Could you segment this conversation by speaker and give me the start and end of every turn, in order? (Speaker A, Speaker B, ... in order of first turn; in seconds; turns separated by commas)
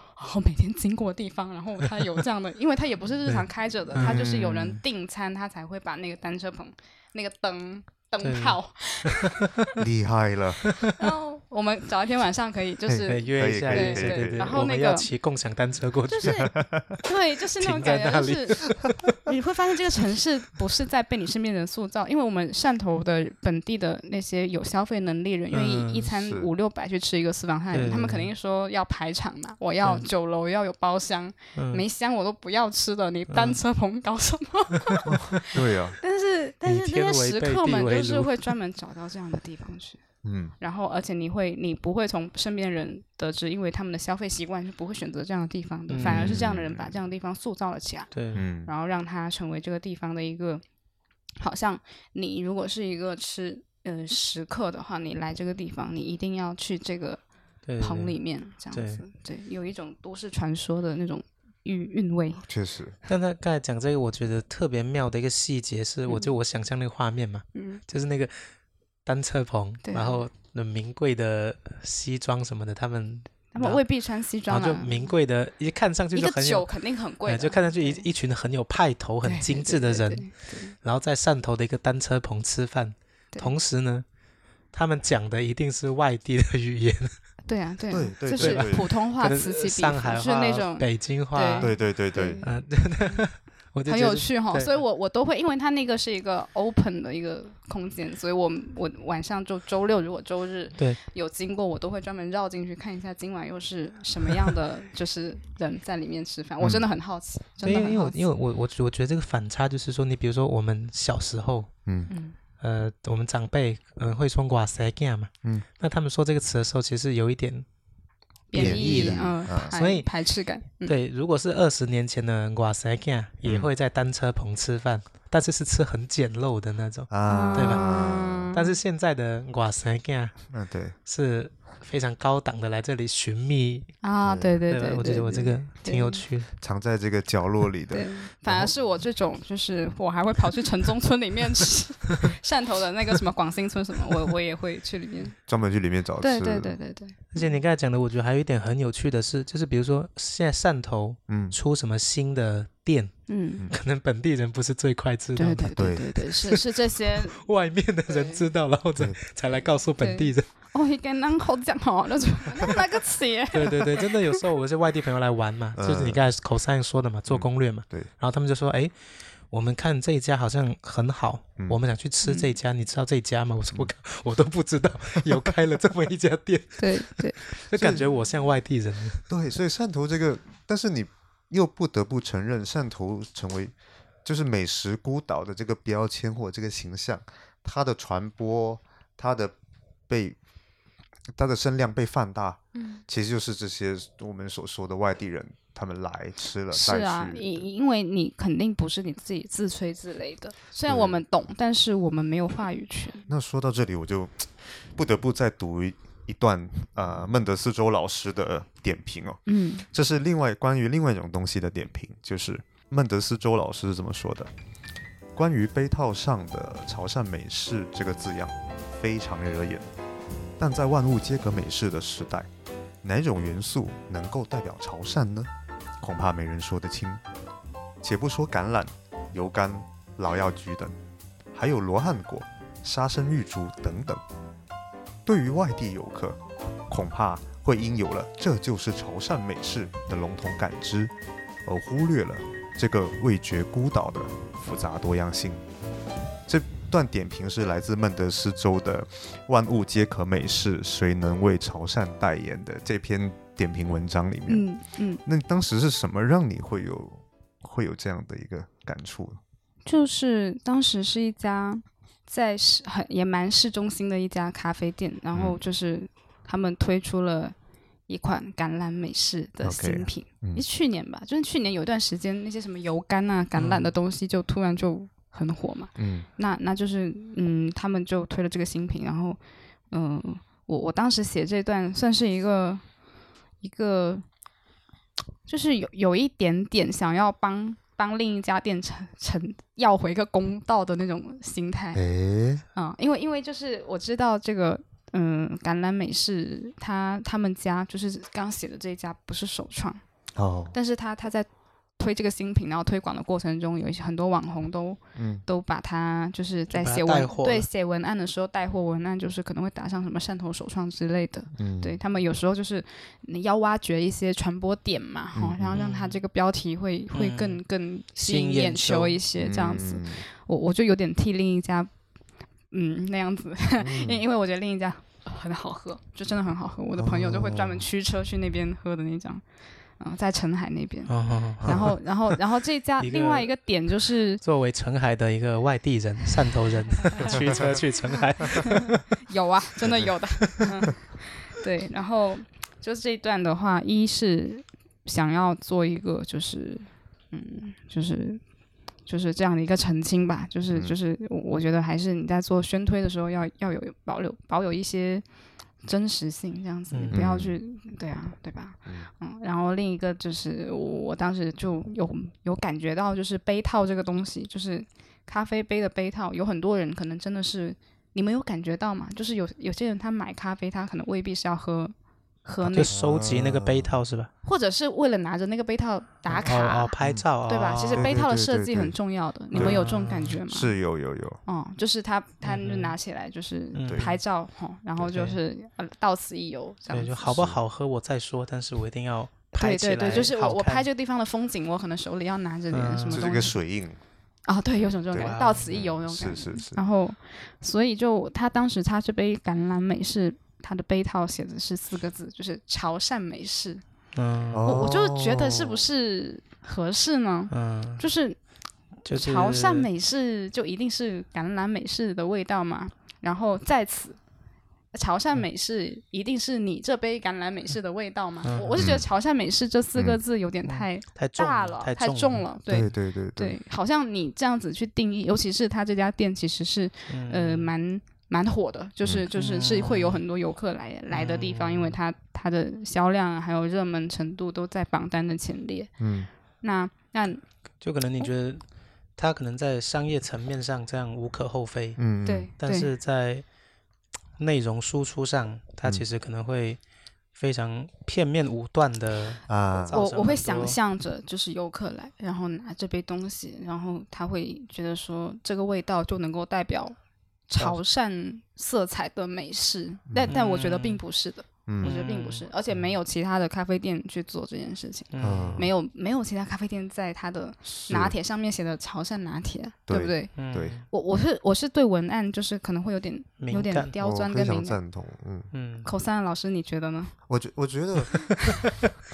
Speaker A: 0.2-9.5, Speaker B: 3.3-4.2, Speaker C: 4.0-4.8, Speaker B: 8.2-9.4, Speaker C: 9.8-10.6, Speaker A: 11.0-15.1, Speaker C: 12.9-14.5, Speaker B: 13.1-16.5, Speaker A: 16.1-40.0, Speaker C: 16.3-16.9, Speaker B: 17.6-19.2, Speaker B: 25.5-26.1, Speaker C: 26.2-26.5, Speaker B: 27.7-28.3, Speaker B: 31.6-31.8, Speaker B: 33.3-33.6, Speaker C: 35.1-36.0, Speaker B: 36.6-38.5, Speaker C: 40.2-40.5, Speaker A: 40.6-50.6, Speaker B: 45.9-46.4, Speaker C: 46.0-46.9, Speaker B: 48.1-48.5, Speaker C: 48.3-48.7, Speaker A: 51.4-57.2, Speaker B: 57.7-58.1, Speaker A: 57.8-62.4, Speaker B: 58.7-59.0, Speaker C: 62.4-63.0, Speaker B: 63.1-68.5, Speaker A: 66.1-66.3, Speaker A: 67.5-67.8, Speaker B: 69.0-73.8, Speaker A: 69.8-70.3, Speaker A: 73.5-75.1, Speaker B: 74.5-76.7, Speaker A: 76.1-78.1, Speaker B: 77.2-84.0, Speaker A: 79.2-80.8, Speaker B: 84.7-87.1, Speaker A: 87.5-92.5, Speaker C: 87.9-88.8, Speaker B: 88.3-91.8, Speaker C: 91.6-92.4, Speaker B: 92.4-94.8, Speaker A: 93.9-108.2, Speaker B: 107.6-111.7, Speaker B: 112.6-117.7, Speaker A: 118.5-120.9, Speaker B: 118.5-120.1, Speaker C: 118.5-119.7, Speaker B: 120.8-127.9, Speaker C: 127.1-128.5, Speaker A: 127.3-128.8, Speaker B: 128.5-130.5, Speaker C: 130.5-130.9, Speaker B: 131.1-134.0, Speaker A: 134.0-136.2, Speaker C: 134.2-134.6, Speaker B: 134.7-136.5, Speaker C: 136.6-138.8, Speaker A: 137.9-145.3, Speaker C: 145.5-146.8, Speaker A: 146.2-147.6, Speaker B: 147.3-156.6, Speaker C: 151.3-151.6, Speaker A: 153.3-153.7, Speaker A: 155.4-157.4, Speaker C: 155.8-156.2, Speaker B: 157.4-160.5, Speaker A: 158.1-158.4, Speaker A: 160.0-164.1, Speaker B: 163.5-168.9, Speaker C: 165.8-166.2, Speaker C: 167.3-168.1, Speaker B: 169.5-179.3, Speaker A: 172.2-172.5, Speaker A: 176.8-177.4, Speaker C: 177.8-178.1, Speaker C: 179.3-183.7, Speaker C: 184.2-189.6, Speaker C: 190.1-190.4, Speaker C: 191.3-197.6, Speaker A: 192.8-193.0, Speaker A: 196.7-203.3, Speaker C: 200.9-201.2, Speaker C: 203.3-214.5, Speaker A: 209.5-209.8, Speaker C: 215.3-219.9, Speaker C: 220.6-222.5, Speaker C: 223.0-225.5, Speaker C: 226.0-227.2, Speaker C: 228.0-230.9, Speaker C: 231.5-234.2, Speaker C: 235.3-241.1, Speaker C: 241.7-245.6, Speaker C: 246.5-254.7, Speaker A: 254.5-255.2, Speaker C: 255.2-259.4, Speaker A: 259.9-267.6, Speaker C: 265.3-265.6, Speaker A: 268.1-279.4, Speaker C: 269.6-270.6, Speaker B: 273.6-273.9, Speaker C: 276.0-276.3, Speaker A: 279.9-282.8, Speaker A: 283.6-284.2, Speaker A: 285.5-292.0, Speaker C: 291.9-292.6, Speaker A: 292.8-300.0, Speaker C: 300.4-300.8, Speaker A: 300.7-321.9, Speaker C: 305.1-305.4, Speaker B: 306.7-307.7, Speaker C: 311.5-312.0, Speaker C: 315.4-315.8, Speaker B: 315.7-316.2, Speaker B: 317.1-317.6, Speaker B: 318.2-319.2, Speaker C: 319.4-320.2, Speaker A: 322.7-329.4, Speaker C: 323.8-324.2, Speaker C: 327.0-327.8, Speaker A: 330.0-334.4, Speaker B: 331.1-332.4, Speaker C: 331.6-331.9, Speaker B: 333.0-333.5, Speaker B: 334.4-339.2, Speaker A: 337.1-337.4, Speaker C: 337.2-337.7, Speaker A: 338.5-348.4, Speaker C: 339.9-340.6, Speaker A: 349.1-355.2, Speaker A: 355.8-372.9, Speaker B: 356.9-357.2, Speaker C: 357.1-357.6, Speaker B: 372.6-374.3, Speaker C: 372.9-373.9, Speaker A: 374.4-376.9, Speaker B: 376.4-378.1, Speaker A: 377.5-380.7, Speaker C: 377.9-379.0, Speaker C: 379.5-379.8, Speaker B: 379.5-380.4, Speaker C: 380.5-381.4, Speaker A: 381.5-387.3, Speaker B: 382.4-382.9, Speaker B: 383.7-384.2, Speaker B: 385.1-385.4, Speaker B: 386.9-390.9, Speaker C: 387.3-387.6, Speaker A: 389.6-393.6, Speaker B: 392.7-393.3, Speaker C: 393.1-394.0, Speaker A: 394.5-403.8, Speaker C: 394.8-396.8, Speaker B: 395.1-395.7, Speaker B: 404.1-404.7, Speaker C: 404.5-405.9, Speaker A: 404.6-408.4, Speaker B: 407.5-408.0, Speaker B: 409.1-409.9, Speaker A: 409.1-414.2, Speaker A: 414.9-435.9, Speaker B: 418.4-418.9, Speaker C: 418.8-419.1, Speaker B: 420.7-422.5, Speaker C: 422.7-423.6, Speaker B: 427.1-427.7, Speaker B: 429.3-430.2, Speaker B: 431.1-432.0, Speaker C: 436.0-436.3, Speaker A: 436.6-437.4, Speaker B: 437.8-438.6, Speaker B: 439.2-442.0, Speaker C: 442.0-442.5, Speaker A: 442.2-442.9, Speaker B: 442.6-443.4, Speaker B: 444.4-446.8, Speaker B: 447.3-450.8, Speaker C: 449.5-449.9, Speaker A: 449.9-457.0, Speaker A: 457.5-470.4, Speaker C: 460.1-460.3, Speaker B: 460.3-461.0, Speaker C: 461.7-461.9, Speaker B: 461.8-462.5, Speaker B: 465.1-465.7, Speaker C: 465.2-465.7, Speaker C: 467.7-468.1, Speaker C: 469.9-470.8, Speaker B: 470.4-470.9, Speaker A: 470.9-474.8, Speaker B: 473.4-473.9, Speaker C: 474.0-475.5, Speaker B: 475.5-475.9, Speaker A: 475.9-477.1, Speaker C: 477.3-478.4